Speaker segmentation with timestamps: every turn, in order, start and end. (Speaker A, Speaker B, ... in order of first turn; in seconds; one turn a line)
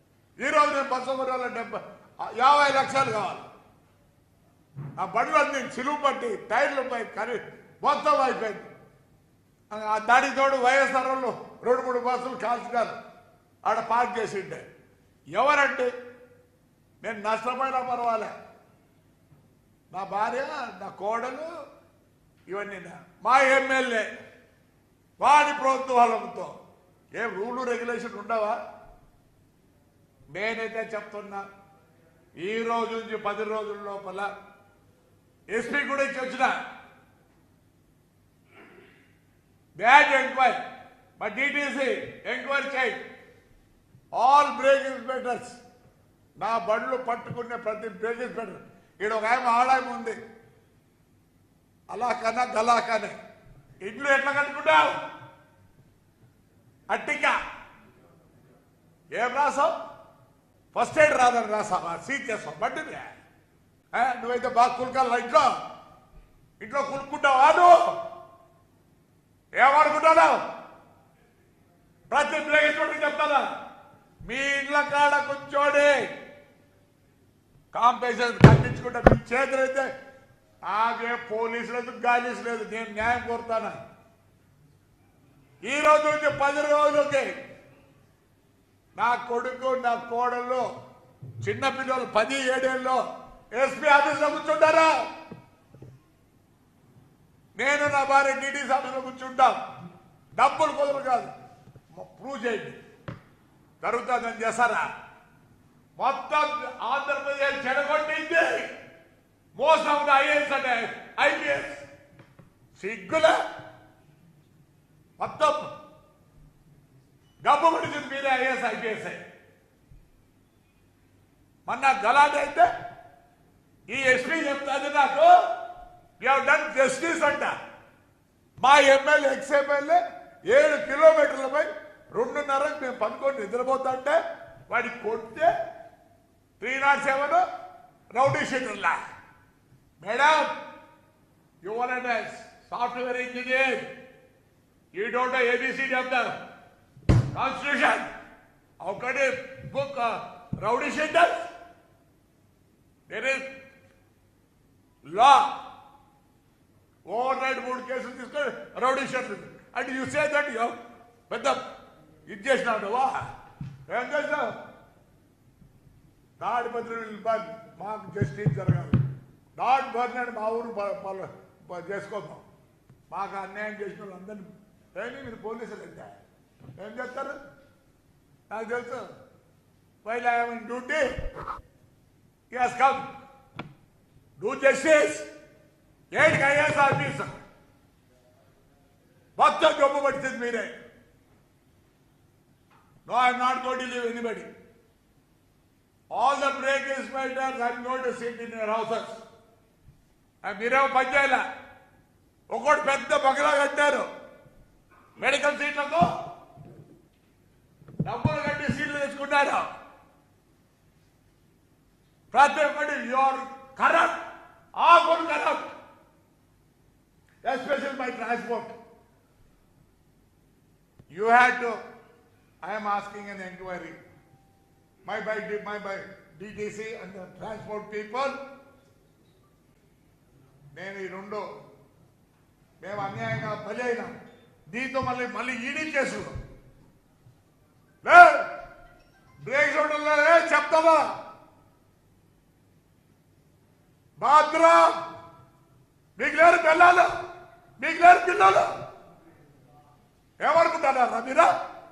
Speaker A: 0.4-3.5
Speaker A: 5.0-8.7
Speaker A: 9.7-13.0
Speaker A: 13.6-14.6
Speaker A: 15.3-15.9
Speaker A: 17.0-18.3
Speaker A: 19.9-21.5
Speaker A: 22.5-24.1
Speaker A: 25.2-26.5
Speaker A: 27.1-28.6
Speaker A: 30.3-31.4
Speaker A: 32.4-34.3
Speaker A: 35.5-36.6
Speaker A: 39.8-40.6
Speaker A: 41.2-43.0
Speaker A: 44.1-45.6
Speaker A: 46.4-50.2
Speaker A: 51.9-53.2
Speaker A: 53.8-55.0
Speaker A: 56.9-57.4
Speaker A: 59.1-59.7
Speaker A: 60.7-63.1
Speaker A: 63.9-65.5
Speaker A: 66.6-67.8
Speaker A: 69.5-70.4
Speaker A: 72.1-73.5
Speaker A: 74.2-76.1
Speaker A: 77.7-79.9
Speaker A: 80.7-83.8
Speaker A: 85.6-87.3
Speaker A: 89.0-90.7
Speaker A: 91.4-93.0
Speaker A: 93.5-94.9
Speaker A: 97.6-99.6
Speaker A: 100.4-101.3
Speaker A: 102.0-102.8
Speaker A: 103.8-104.8
Speaker A: 106.0-108.7
Speaker A: 109.6-111.8
Speaker A: 112.8-113.4
Speaker A: 115.2-115.7
Speaker A: 117.4-119.2
Speaker A: 121.7-122.7
Speaker A: 123.9-125.3
Speaker A: 126.2-127.5
Speaker A: 128.6-135.5
Speaker A: 136.6-137.4
Speaker A: 138.1-139.0
Speaker A: 140.0-140.5
Speaker A: 141.6-143.9
Speaker A: 144.9-146.3
Speaker A: 147.3-148.1
Speaker A: 148.8-151.5
Speaker A: 153.1-153.4
Speaker A: 155.1-155.6
Speaker A: 157.1-160.8
Speaker A: 161.3-161.6
Speaker A: 162.3-163.2
Speaker A: 163.9-164.6
Speaker A: 166.4-169.0
Speaker A: 169.6-172.4
Speaker A: 173.1-176.2
Speaker A: 176.8-177.4
Speaker A: 178.5-179.1
Speaker A: 180.0-181.1
Speaker A: 182.5-183.1
Speaker A: 184.4-185.3
Speaker A: 186.1-187.3
Speaker A: 189.4-190.7
Speaker A: 193.1-194.5
Speaker A: 196.1-199.2
Speaker A: 200.4-201.4
Speaker A: 202.5-204.1
Speaker A: 205.2-206.1
Speaker A: 208.0-209.7
Speaker A: 212.3-214.2
Speaker A: 214.8-215.7
Speaker A: 217.4-218.8
Speaker A: 221.1-221.8
Speaker A: 222.6-224.0
Speaker A: 225.1-228.3
Speaker A: 230.7-231.4
Speaker A: 232.8-234.1
Speaker A: 234.7-236.4
Speaker A: 238.0-238.5
Speaker A: 239.4-241.1
Speaker A: 244.2-245.0
Speaker A: 246.2-247.1
Speaker A: 247.8-248.7
Speaker A: 250.4-251.5